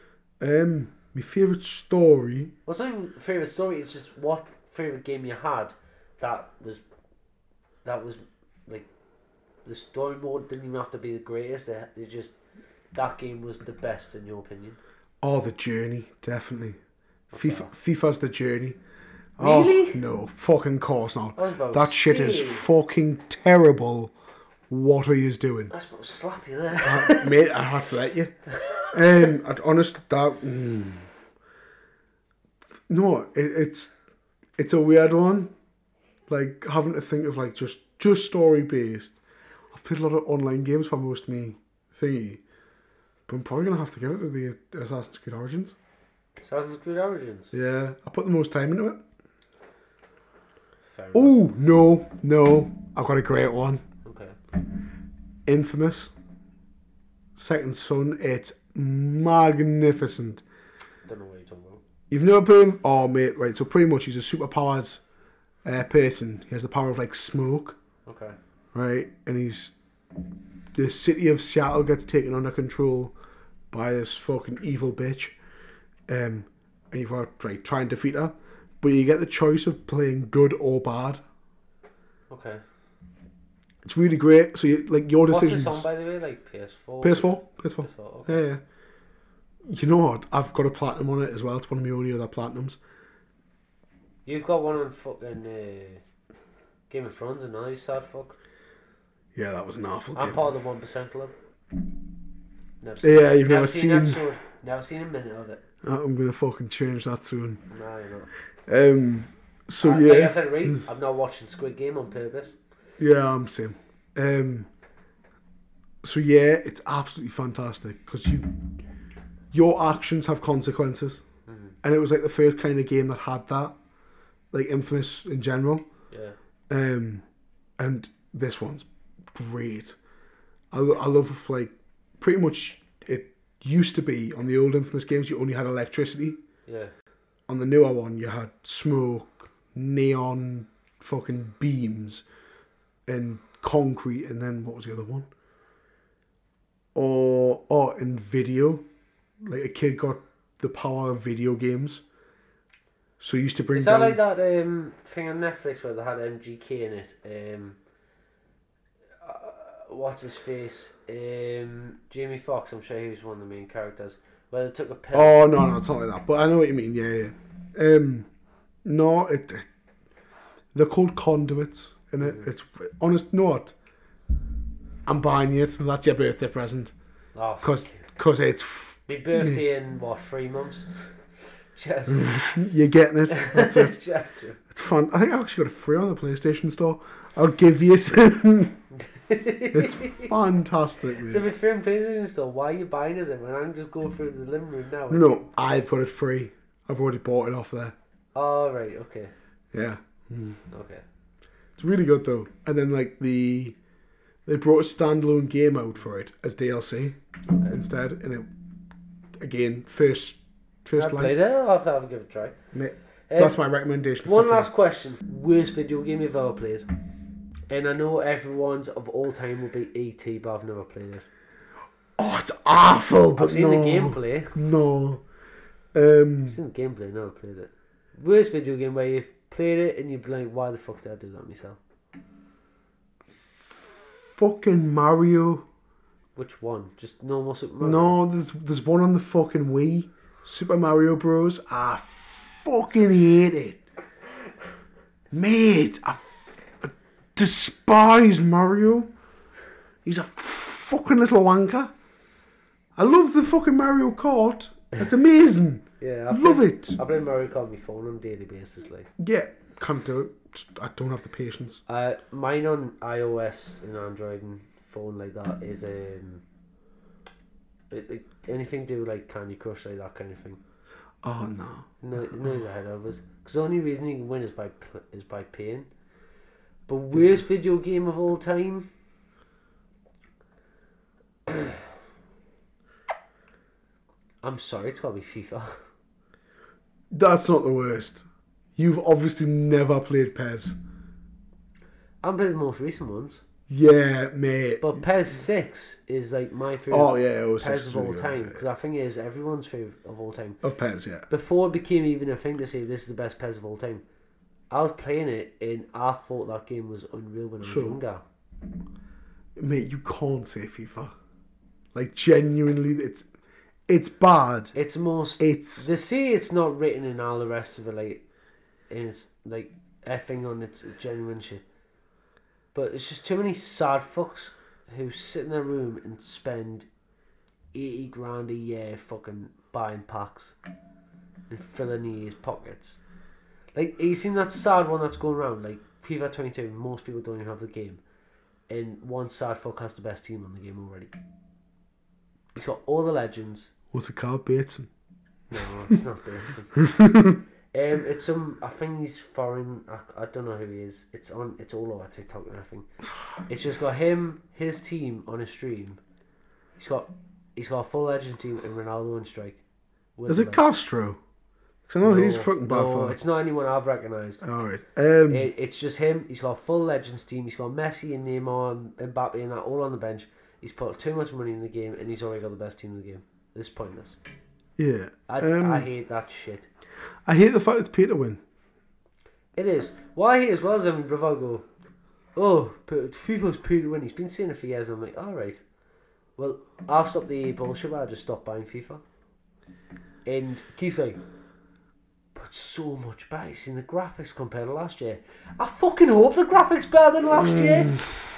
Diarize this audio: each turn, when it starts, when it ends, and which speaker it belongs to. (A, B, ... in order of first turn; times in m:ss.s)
0:00.4-0:02.5 A
0:02.6-0:06.8 B
0:07.8-0:08.9 B
0:09.6-0:12.3 B
0:12.9-0:14.8 B
0:15.2-0:16.8 A
0:17.3-0:17.7 B
0:17.3-0:18.8 A
0:19.4-0:24.1 A
0:19.4-0:20.0 B
0:21.4-0:22.6 B
0:24.7-0:25.7 A
0:25.7-0:27.6 B
0:26.8-0:31.1 A
0:32.9-0:33.9 A
0:34.6-0:35.5 A
0:36.3-0:39.2 A
0:39.7-0:42.4 A
0:43.3-0:45.8 A
0:46.4-0:47.5 B
0:47.5-0:49.0 A
0:50.9-0:51.4 B
0:51.1-0:53.8 A
0:54.0-0:54.4 B
0:55.4-0:56.1 A
0:57.4-1:00.4 A
1:01.0-1:01.8 B
1:02.1-1:05.0 A
1:05.6-1:07.8 A
1:08.0-1:08.4 B
1:08.7-1:09.7 A
1:10.7-1:13.1 A
1:13.7-1:15.4 A
1:16.1-1:21.2 A
1:22.3-1:22.6 B
1:23.8-1:25.8 A
1:25.3-1:28.4 B
1:27.0-1:28.6 A
1:29.6-1:32.8 A
1:34.2-1:36.0 B
1:36.9-1:38.4 B
1:39.3-1:40.4 A
1:40.1-1:41.3 B
1:42.8-1:45.6 B
1:43.0-1:44.2 A
1:45.8-1:47.6 A
1:47.7-1:48.3 B
1:48.7-1:50.8 A
1:49.8-1:52.6 B
1:53.0-1:54.7 A
1:56.0-1:58.7 A
1:59.5-2:01.2 A
2:01.5-2:01.7 B
2:01.8-2:03.8 A
2:04.5-2:05.8 A
2:06.1-2:06.4 B
2:06.7-2:07.2 A
2:07.8-2:10.0 A
2:10.7-2:16.4 A
2:16.7-2:16.9 B
2:17.5-2:22.2 A
2:23.1-2:25.3 A
2:26.9-2:28.8 A
2:29.4-2:32.0 A
2:33.2-2:34.2 A
2:33.7-2:37.8 B
2:39.2-2:45.5 B
2:45.1-2:48.3 A
2:48.8-2:49.7 A
2:50.7-2:53.7 A
2:52.2-2:52.5 B
2:55.0-2:56.9 A
2:57.3-2:58.0 B
2:57.6-2:59.6 A
2:59.1-3:00.9 B
3:01.7-3:02.4 B
3:02.1-3:04.0 A
3:03.3-3:04.6 B
3:04.7-3:08.8 A
3:09.1-3:10.3 B
3:09.7-3:11.4 A
3:11.2-3:15.4 B
3:15.1-3:17.9 A
3:18.3-3:19.3 B
3:19.7-3:20.6 A
3:20.7-3:21.0 B
3:21.8-3:23.8 A
3:24.4-3:28.5 A
3:29.4-3:31.4 A
3:31.0-3:32.6 B
3:32.7-3:34.7 A
3:33.3-3:33.6 B
3:34.2-3:36.9 B
3:37.7-3:41.2 B
3:42.2-3:45.2 A
3:43.4-3:44.5 B
3:45.9-3:46.6 A
3:46.5-3:51.8 B
3:53.7-3:55.6 A
3:56.4-3:58.2 B
3:57.8-4:03.8 A
4:05.3-4:09.1 A
4:10.0-4:11.9 A
4:13.0-4:17.0 A
4:16.0-4:19.1 B
4:19.2-4:21.8 A
4:21.9-4:26.4 B
4:27.9-4:30.6 B
4:31.2-4:31.9 A
4:32.0-4:35.9 B
4:36.9-4:38.9 B
4:41.5-4:41.8 B
4:44.4-4:45.8 B
4:47.1-4:50.8 A
4:52.2-4:53.4 B
4:53.7-4:55.0 A
4:54.8-5:00.6 B
4:56.9-4:58.6 A
5:00.6-5:01.3 A
5:01.3-5:04.0 B
5:04.7-5:08.2 B
5:07.6-5:08.0 A
5:09.6-5:11.1 A
5:11.9-5:13.2 A
5:13.9-5:14.7 A
5:14.7-5:18.2 B
5:15.4-5:15.8 A
5:18.9-5:21.6 B
5:22.7-5:26.9 B
5:27.7-5:30.6 B
5:31.5-5:33.0 B
5:33.7-5:38.0 B
5:38.7-5:41.1 B
5:42.6-5:43.7 B
5:43.9-5:44.9 A
5:45.5-5:46.9 B
5:46.9-5:47.4 A
5:47.7-5:52.9 B
5:53.4-5:56.0 B
5:56.8-5:59.6 B
6:00.2-6:00.6 B
6:00.3-6:01.2 A
6:01.9-6:03.2 A
6:02.0-6:04.4 B
6:04.4-6:05.5 A
6:05.3-6:14.2 B
6:14.8-6:15.9 A
6:15.3-6:16.7 B
6:17.2-6:18.4 A
6:19.6-6:21.6 B
6:22.4-6:25.6 B
6:26.4-6:29.0 B
6:30.2-6:31.2 B
6:32.3-6:38.0 B
6:37.5-6:38.1 A